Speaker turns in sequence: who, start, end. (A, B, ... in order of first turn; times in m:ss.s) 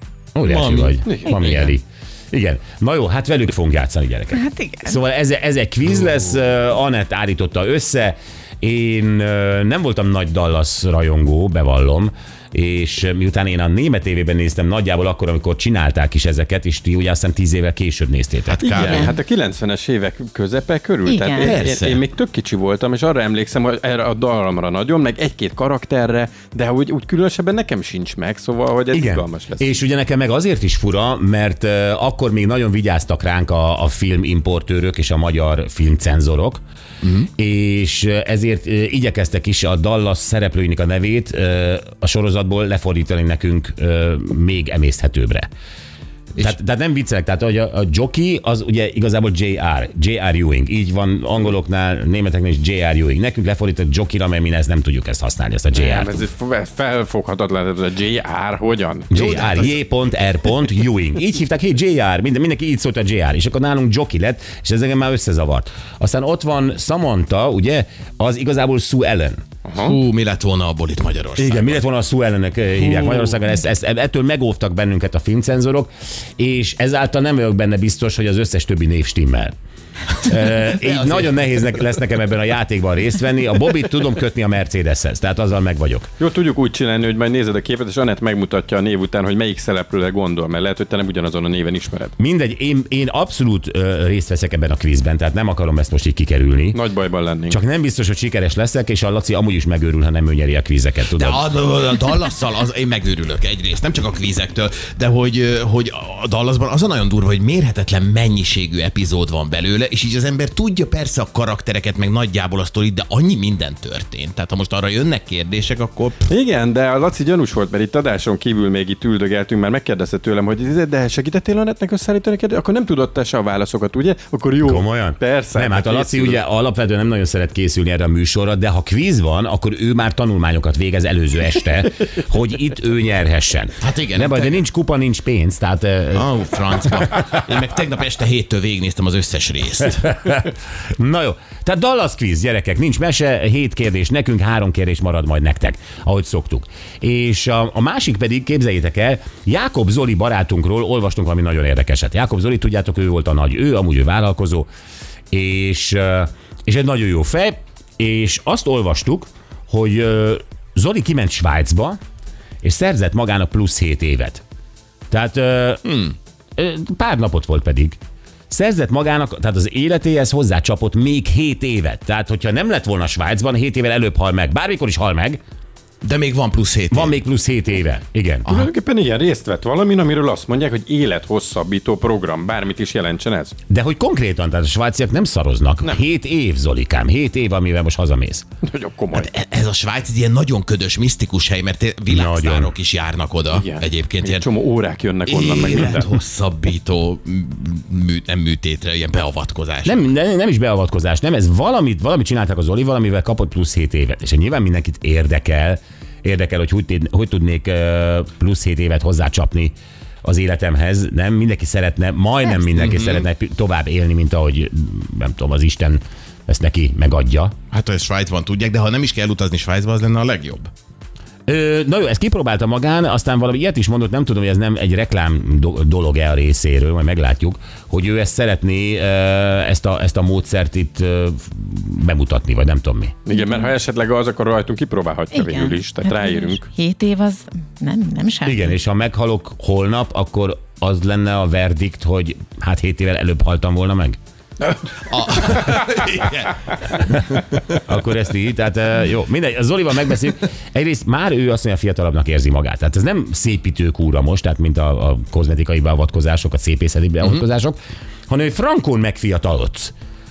0:00.3-0:18.6 A
0:00.4-0:01.0 B
0:01.0-0:01.5 C
0:04.3-0:05.0 D
0:18.5-0:19.1 B
0:18.6-0:29.8 C
0:18.7-0:19.1 D
0:21.0-0:21.5 D
0:21.4-0:22.0 B
0:28.9-0:36.6 A
0:37.0-0:37.3 B
0:37.4-0:45.5 A
0:46.4-0:56.2 A
0:55.7-0:59.2 C
0:59.1-1:09.4 A
0:59.1-0:59.8 B
1:09.6-1:09.9 C
1:09.8-1:11.8 B
1:11.4-1:19.5 A
1:20.2-1:26.1 A
1:20.9-1:21.2 B
1:26.2-1:32.1 C
1:32.2-1:36.8 A
1:36.7-1:37.6 C
1:37.5-1:41.5 A
1:41.1-1:56.3 B
1:56.3-2:06.4 C
2:04.6-2:16.3 A
2:13.8-2:14.6 B
2:16.1-2:20.1 B
2:20.0-2:34.7 A
2:35.3-2:42.0 A
2:42.6-2:44.4 A
2:45.1-2:46.0 A
2:45.8-2:46.1 B
2:46.6-2:48.0 A
2:48.5-2:55.4 A
2:56.0-2:57.1 B
2:56.9-2:58.5 A
2:58.4-3:03.5 C
3:03.7-3:08.4 A
3:08.6-3:09.3 C
3:09.1-3:14.5 B
3:12.1-3:12.8 A
3:13.5-3:16.1 C
3:15.2-3:20.0 B
3:19.8-3:37.5 A
3:32.7-3:33.2 B
3:37.7-3:40.7 B
3:41.5-3:53.1 A
3:53.2-3:56.6 C
3:53.3-3:53.7 D
3:55.3-3:58.7 D
3:58.4-4:04.2 A
4:05.0-4:07.7 B
4:07.7-4:19.9 A